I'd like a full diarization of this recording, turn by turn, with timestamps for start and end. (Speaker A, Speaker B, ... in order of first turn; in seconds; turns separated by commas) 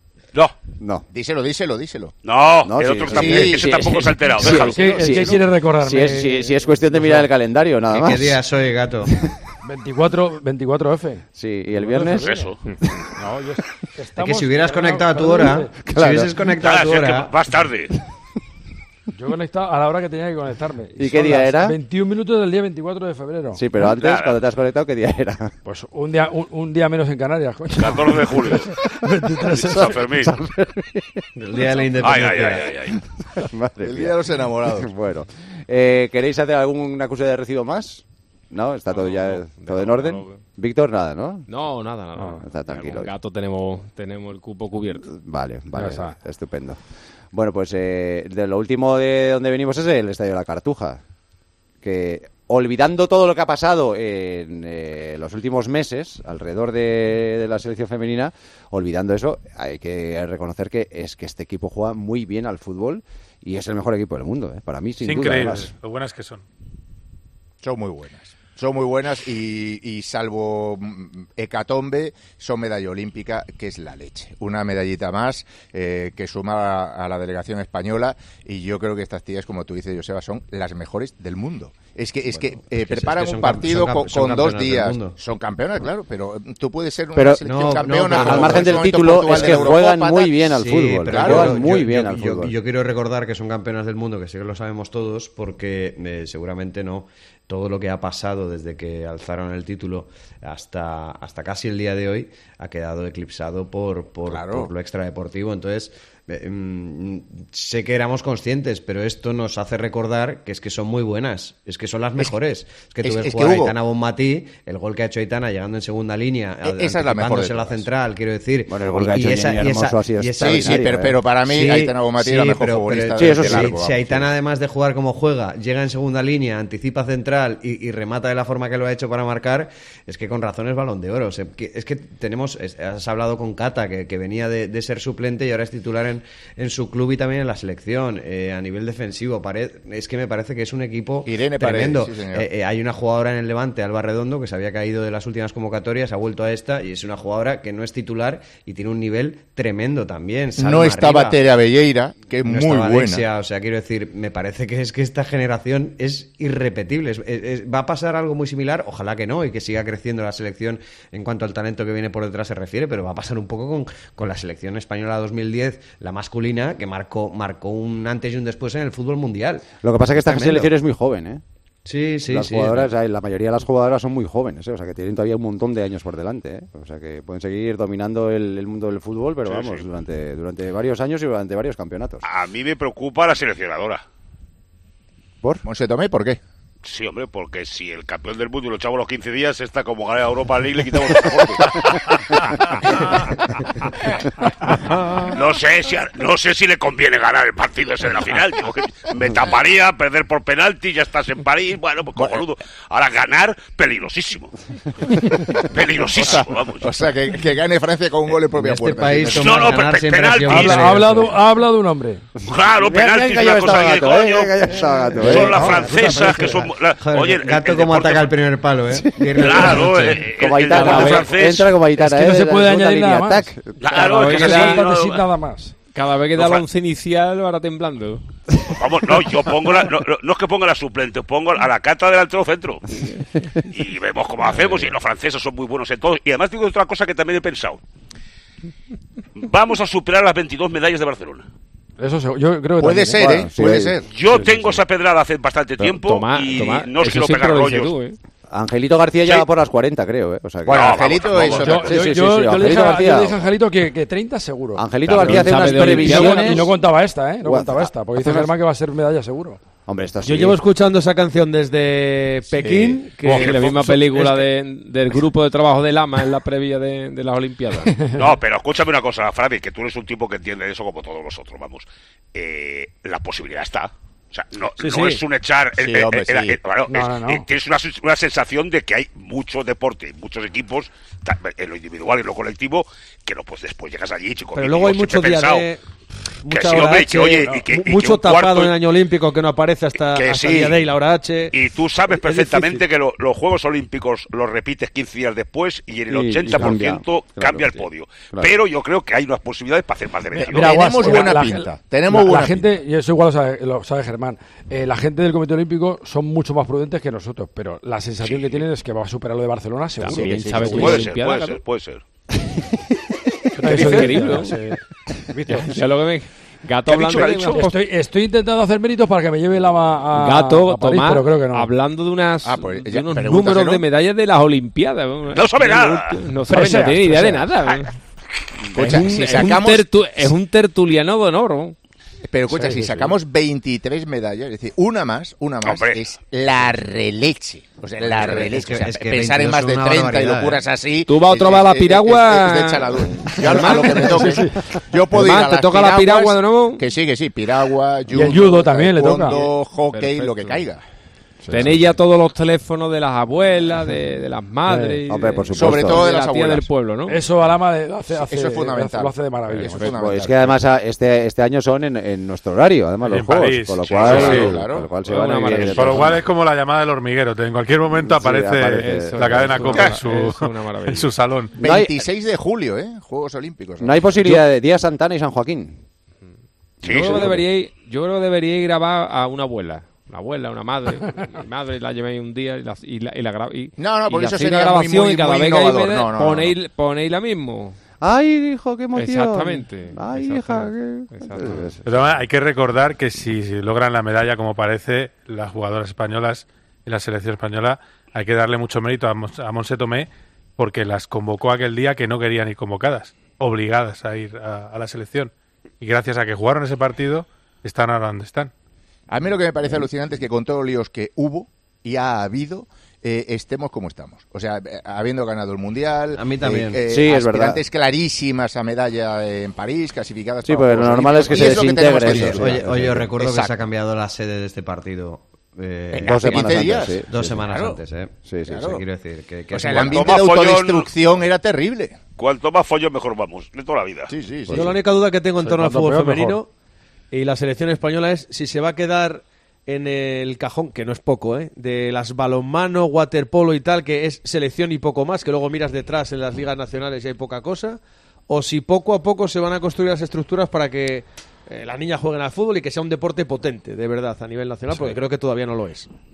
Speaker A: 0.8-1.1, Speaker B: 1.1-2.1, Speaker C: 2.2-5.1, Speaker A: 2.6-8.4, Speaker B: 3.0-3.9, Speaker D: 4.4-7.3, Speaker E: 7.9-9.1, Speaker D: 9.6-12.5, Speaker A: 11.3-12.4, Speaker C: 12.2-12.6, Speaker D: 13.1-15.8, Speaker E: 14.2-17.3, Speaker A: 15.9-16.4, Speaker C: 16.6-17.9, Speaker D: 19.1-23.6, Speaker A: 21.0-21.8, Speaker A: 23.5-25.5, Speaker C: 23.9-24.4, Speaker D: 25.6-30.0, Speaker C: 27.8-28.7, Speaker C: 29.5-30.3, Speaker A: 29.5-31.2, Speaker E: 31.4-32.8, Speaker C: 32.0-33.0, Speaker A: 33.4-41.5, Speaker B: 33.8-34.9, Speaker F: 38.9-40.4, Speaker F: 41.5-45.1, Speaker A: 42.2-43.1, Speaker A: 45.0-46.8, Speaker D: 45.8-46.1, Speaker A: 47.3-51.0, Speaker A: 51.8-65.7, Speaker G: 65.0-66.4, Speaker B: 67.6-90.4, Speaker E: 82.3-85.2, Speaker A: 87.1-87.4, Speaker E: 87.4-89.8, Speaker A: 88.0-92.5, Speaker E: 90.5-120.9, Speaker B: 91.0-91.7, Speaker B: 104.3-104.7, Speaker B: 113.0-113.8, Speaker B: 116.6-117.9, Speaker A: 118.7-121.2, Speaker B: 120.4-124.3, Speaker E: 121.5-151.4, Speaker A: 123.2-123.8, Speaker B: 141.2-142.5, Speaker B: 150.6-153.3, Speaker E: 152.4-170.7, Speaker A: 169.8-171.4, Speaker E: 171.8-172.9, Speaker A: 172.3-182.2, Speaker C: 179.4-179.8, Speaker C: 182.2-184.0, Speaker B: 185.6-186.4, Speaker C: 186.8-192.2, Speaker C: 195.2-204.5, Speaker B: 202.2-202.4, Speaker C: 205.7-206.9, Speaker B: 206.0-209.8, Speaker E: 208.5-211.3, Speaker C: 209.3-211.0, Speaker D: 210.4-212.3, Speaker C: 212.5-218.3, Speaker A: 212.7-216.4, Speaker D: 215.2-215.6, Speaker E: 215.3-220.2, Speaker A: 218.9-223.9, Speaker C: 219.4-221.7, Speaker D: 220.9-221.2, Speaker D: 221.9-225.8, Speaker C: 223.8-225.2, Speaker F: 224.0-224.9, Speaker F: 225.9-228.2, Speaker C: 226.4-226.6, Speaker C: 228.8-232.8, Speaker C: 233.7-237.8, Speaker C: 239.4-241.4, Speaker D: 242.0-243.4, Speaker B: 242.8-244.1, Speaker A: 243.2-244.0, Speaker C: 244.1-247.9, Speaker F: 245.8-248.2, Speaker A: 248.5-253.4, Speaker C: 250.7-251.8, Speaker B: 250.7-252.0, Speaker D: 251.6-259.6, Speaker A: 254.8-256.7, Speaker F: 255.1-256.7, Speaker A: 257.4-258.5, Speaker A: 259.9-260.6, Speaker H: 260.2-264.4, Speaker F: 262.6-268.0, Speaker C: 263.4-263.8, Speaker C: 268.1-285.7, Speaker H: 274.8-275.2, Speaker B: 275.8-276.6, Speaker D: 276.9-277.4, Speaker H: 284.5-285.8, Speaker H: 286.4-291.5, Speaker C: 286.5-288.8, Speaker C: 290.0-290.8, Speaker C: 291.5-301.4, Speaker H: 292.1-292.8, Speaker A: 296.1-298.5, Speaker B: 300.3-302.7, Speaker D: 300.5-311.0, Speaker C: 308.2-308.6, Speaker F: 310.0-311.6, Speaker B: 310.2-310.5, Speaker C: 310.7-312.0, Speaker D: 313.6-314.8, Speaker F: 313.6-314.6, Speaker D: 315.3-315.7, Speaker F: 315.5-317.8, Speaker C: 316.9-317.6, Speaker D: 317.5-321.7, Speaker F: 320.1-327.9, Speaker B: 322.4-323.8, Speaker C: 325.3-326.2, Speaker D: 326.4-327.5, Speaker B: 328.7-330.3, Speaker F: 328.7-331.8, Speaker B: 332.3-350.8, Speaker D: 332.5-333.1, Speaker C: 335.6-336.0, Speaker E: 338.0-340.6, Speaker F: 341.1-344.5, Speaker D: 343.6-344.5, Speaker F: 345.1-346.8, Speaker D: 348.1-349.4, Speaker F: 349.3-350.6, Speaker A: 351.4-351.9, Speaker F: 351.5-357.2, Speaker D: 354.6-355.0, Speaker A: 355.1-356.1, Speaker B: 355.5-356.7, Speaker D: 357.1-359.9, Speaker B: 358.1-360.6, Speaker F: 359.5-359.9, Speaker A: 359.9-366.2, Speaker G: 363.1-364.6, Speaker B: 363.9-364.9, Speaker F: 364.1-364.5, Speaker F: 365.0-366.2, Speaker G: 365.6-371.6, Speaker A: 368.0-369.8, Speaker F: 368.7-371.1, Speaker B: 371.6-374.1, Speaker A: 371.6-372.0, Speaker A: 373.8-375.8, Speaker A: 376.8-377.4, Speaker C: 376.9-377.3, Speaker F: 376.9-387.8, Speaker B: 383.8-386.6, Speaker A: 388.0-391.8, Speaker F: 388.9-391.7, Speaker G: 391.9-408.5, Speaker B: 409.1-423.6, Speaker E: 416.1-416.8, Speaker A: 416.9-417.6, Speaker A: 420.4-423.1, Speaker E: 421.3-430.1, Speaker B: 425.9-427.8, Speaker A: 426.0-427.6, Speaker A: 428.3-428.8, Speaker B: 428.5-428.8, Speaker B: 429.5-432.0, Speaker C: 429.9-430.9, Speaker C: 432.2-434.1, Speaker B: 434.1-434.8, Speaker A: 434.5-434.7, Speaker H: 434.5-436.5, Speaker D: 435.4-436.4, Speaker H: 437.1-455.9